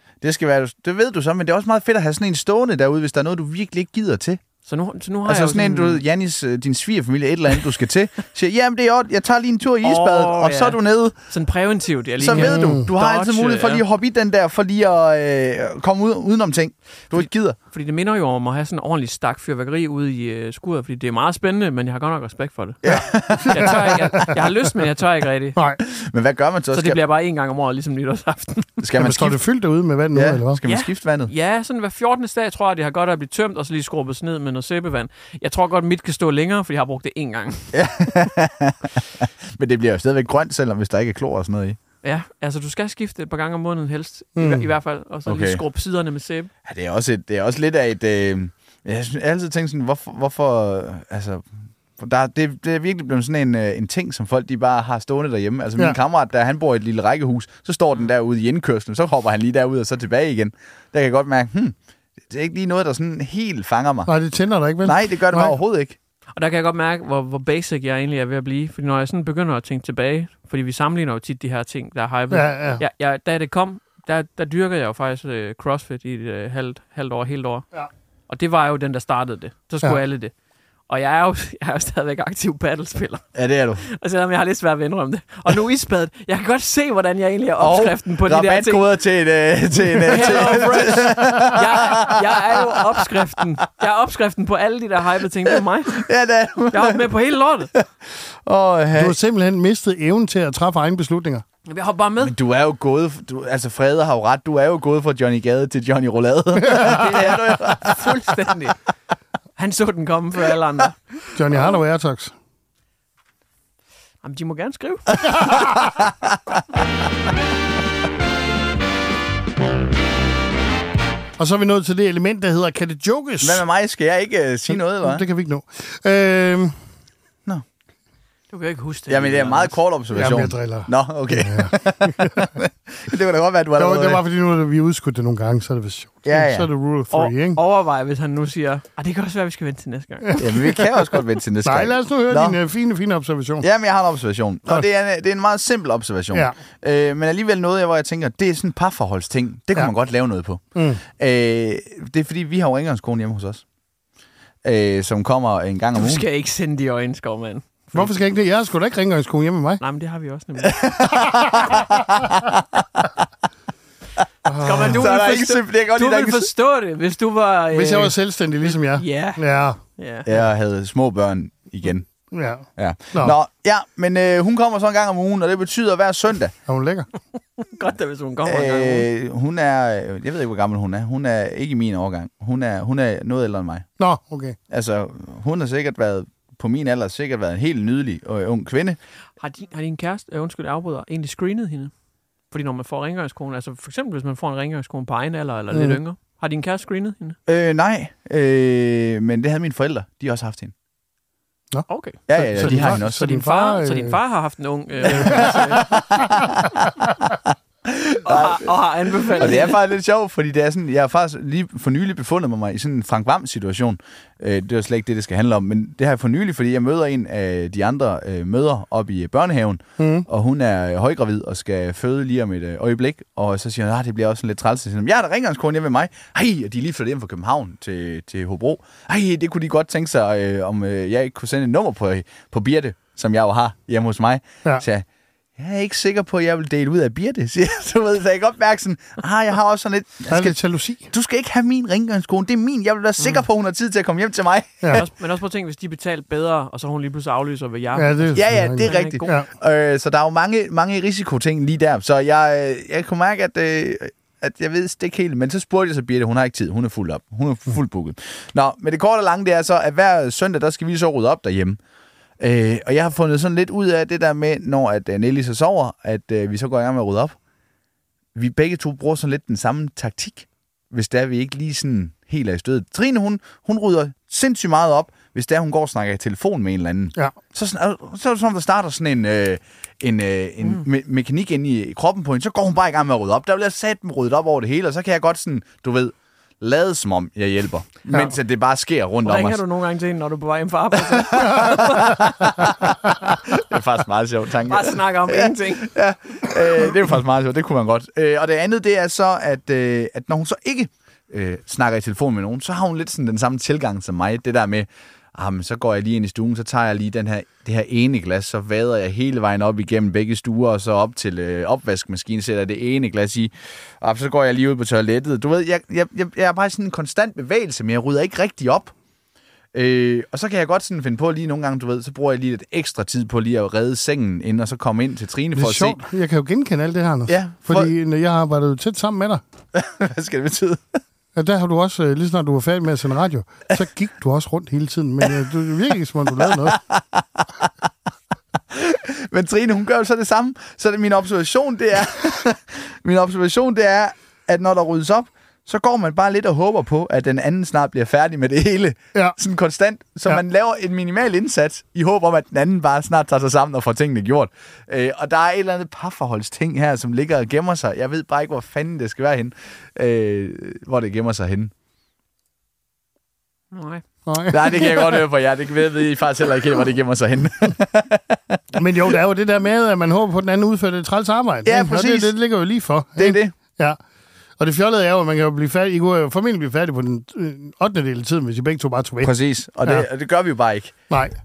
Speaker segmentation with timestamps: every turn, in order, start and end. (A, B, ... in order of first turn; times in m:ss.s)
0:00.2-0:04.4 A
0:04.6-0:06.0 B
0:05.2-0:11.2 A
0:09.8-0:13.8 B
0:12.2-0:17.6 A
0:12.3-0:12.9 C
0:17.1-0:25.6 B
0:22.8-0:23.8 A
0:22.9-0:24.4 C
0:25.6-0:25.8 C
0:25.9-0:27.0 A
0:26.7-0:28.8 B
0:28.8-0:29.4 A
0:29.0-0:30.6 C
0:30.1-0:31.3 A
0:30.7-0:37.7 B
0:37.7-0:41.8 A
0:42.0-0:46.5 B
0:44.4-0:44.7 C
0:45.2-0:45.6 A
0:46.6-1:01.7 A
1:02.3-1:04.1 A
1:04.1-1:05.5 C
1:04.8-1:06.0 A
1:06.4-1:17.6 B
1:12.3-1:12.8 C
1:18.3-1:20.3 B
1:20.9-1:23.2 B
1:23.3-1:23.8 A
1:23.8-1:28.8 B
1:27.6-1:32.8 A
1:30.1-1:36.1 B
1:35.9-1:37.0 A
1:36.7-1:37.7 B
1:38.2-1:39.2 A
1:39.0-1:41.4 C
1:41.6-1:42.3 B
1:42.2-1:48.1 A
1:46.6-1:47.0 C
1:46.8-1:48.8 B
1:49.6-1:51.0 B
1:51.3-1:52.3 C
1:54.2-1:55.5 B
2:01.4-2:03.6 C
2:03.4-2:05.2 A
2:04.7-2:06.7 C
2:08.5-2:09.8 B
2:09.1-2:14.2 A
2:10.1-2:12.5 C
2:13.8-2:17.6 C
2:16.2-2:16.7 A
2:17.1-2:20.4 B
2:20.3-2:20.8 C
2:20.4-2:22.6 A
2:21.6-2:23.6 C
2:23.6-2:30.6 A
2:30.7-2:31.0 C
2:31.1-2:33.6 A
2:34.6-2:36.2 A
2:36.0-2:38.1 B
2:37.9-2:39.8 C
2:39.8-2:40.8 B
2:40.6-2:43.0 A
2:44.4-2:45.0 C
2:44.6-2:49.4 B
2:44.8-2:46.5 A
2:47.7-2:49.8 C
2:50.0-2:50.3 B
2:50.2-2:52.1 A
2:52.3-2:53.3 C
2:52.8-2:56.5 A
2:56.7-2:57.1 C
2:57.6-2:59.1 B
2:58.4-3:03.9 A
3:04.0-3:04.6 C
3:04.7-3:09.0 A
3:09.4-3:11.9 B
3:12.5-3:17.4 B
3:15.7-3:16.0 C
3:17.5-3:20.7 A
3:21.7-3:24.2 C
3:21.9-3:25.9 B
3:22.3-3:23.3 A
3:25.1-3:25.6 C
3:25.2-3:26.6 A
3:27.8-3:28.7 A
3:28.2-3:29.8 B
3:29.4-3:55.0 A
3:40.0-3:40.2 C
3:55.6-4:00.6 A
4:00.3-4:01.1 C
4:01.1-4:05.0 A
4:04.9-4:09.3 B
4:08.0-4:09.5 C
4:08.3-4:21.8 A
4:22.4-4:27.4 A
4:28.3-4:49.6 A
4:49.2-4:52.1 B
4:51.1-5:18.9 A
4:54.7-4:55.9 B
5:19.7-5:26.0 A
5:25.5-5:29.4 C
5:27.3-5:27.9 A
5:29.7-5:31.0 A
5:31.4-5:36.8 C
5:36.4-5:37.7 A
5:38.7-6:01.7 A
6:03.7-6:04.0 B
6:04.3-6:05.2 C
6:04.5-6:08.6 A
6:08.7-6:14.0 C
6:11.6-6:12.3 A
6:13.2-6:13.5 A
6:14.6-6:19.3 C
6:19.2-6:20.9 A
6:21.1-6:21.4 C